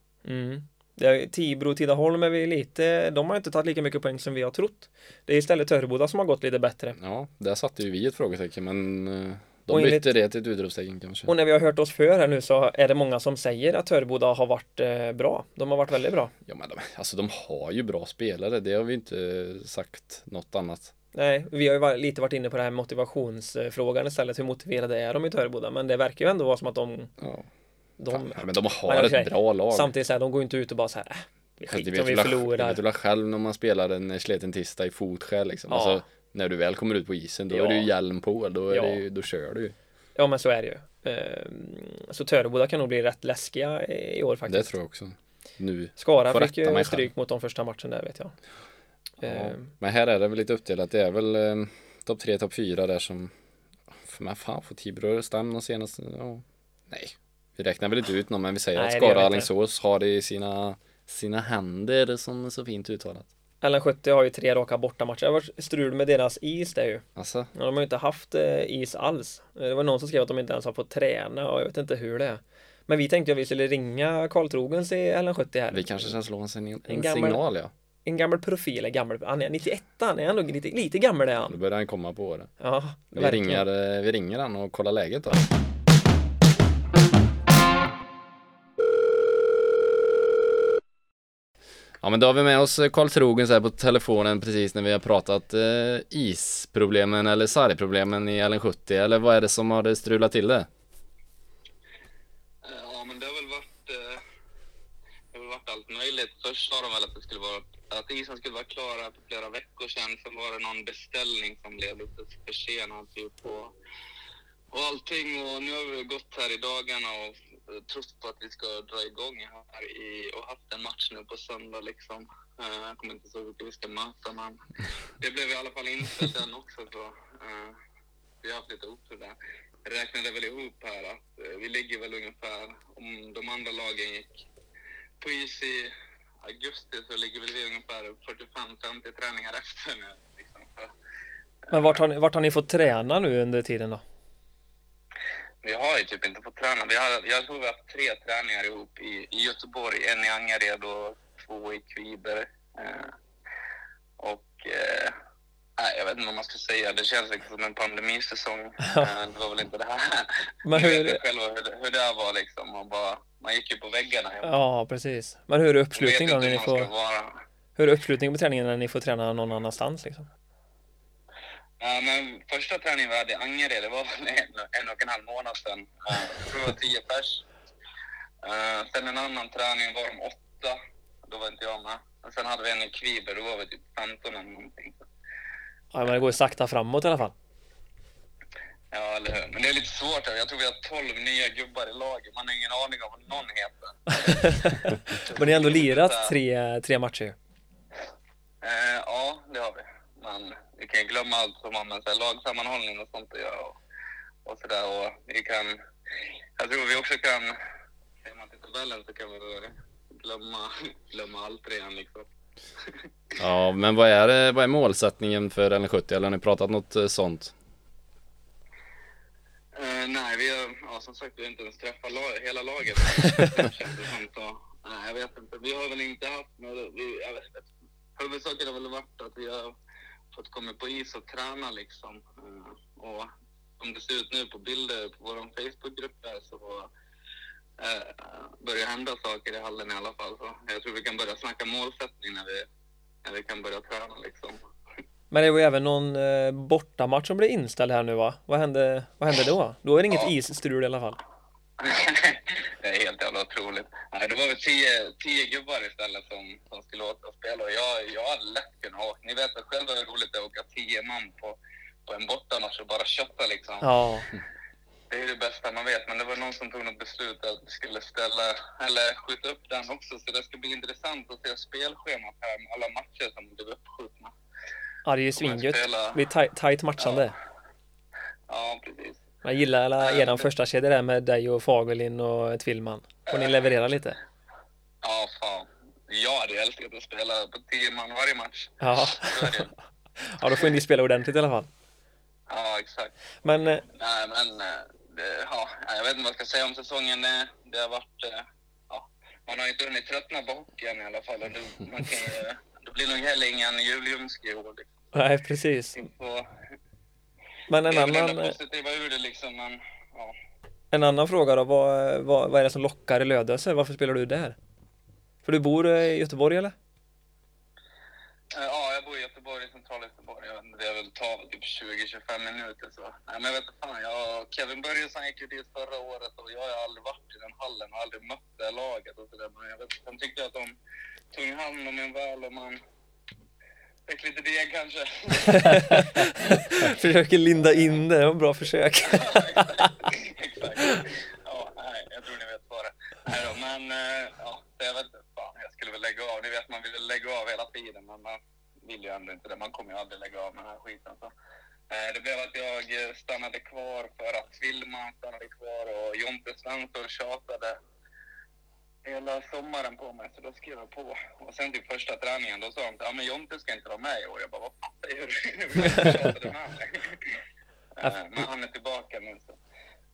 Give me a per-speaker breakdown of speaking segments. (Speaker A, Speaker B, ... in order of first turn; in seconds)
Speaker A: 0.2-7.0, 9.7-10.1, 11.3-16.3, 21.1-27.1, 28.0-32.8, 35.7-36.0, 37.5-37.9, 38.7-39.0, 40.1-44.7, 46.0-48.3, 49.2-49.7, 58.8-59.5, 63.6-76.1, 76.9-77.4, 78.0-81.5, 82.6-83.6, 141.7-144.0, 158.8-159.1, 160.6-161.2, 164.4-166.9, 167.8-170.3, 185.9-187.3, 194.1-197.3, 245.3-251.2, 263.8-264.3, 275.0-277.3, 279.4-284.2, 288.8-289.7, 290.2-291.7, 293.4-293.8, 305.1-306.0, 307.7-308.6, 310.9-314.6, 315.4-316.7, 335.4-339.9, 365.9-366.2
Speaker B: 7.0-11.3, 16.4-20.9, 27.2-27.5, 28.1-29.9, 31.7-39.7, 44.5-47.1, 49.2-53.3, 53.9-63.3, 67.2-67.5, 75.7-77.7, 81.5-82.5, 83.1-85.4, 92.0-100.7, 213.4-217.5
Speaker C: 102.6-104.2, 105.3-113.7, 114.7-124.6, 125.2-127.8, 128.4-134.4, 135.2-140.9, 145.6-153.1, 154.2-155.1, 155.8-164.6, 165.9-167.4, 171.8-177.4, 178.4-185.0, 188.9-194.6, 195.1-196.4, 198.6-203.8, 204.4-205.8, 206.6-207.5, 208.2-212.3, 219.7-227.6, 228.2-229.7, 230.3-236.9, 237.8-242.7, 243.2-244.6, 251.8-263.9, 265.1-274.3, 275.4-276.2, 278.5-279.2, 280.0-280.5, 283.3-283.6, 285.0-289.7, 292.5-293.1, 293.9-304.9, 305.9-306.5, 307.8-310.4, 318.5-330.7, 331.3-332.8, 334.1-336.8, 339.0-351.3, 351.9-357.8, 359.0-367.4, 368.0-369.6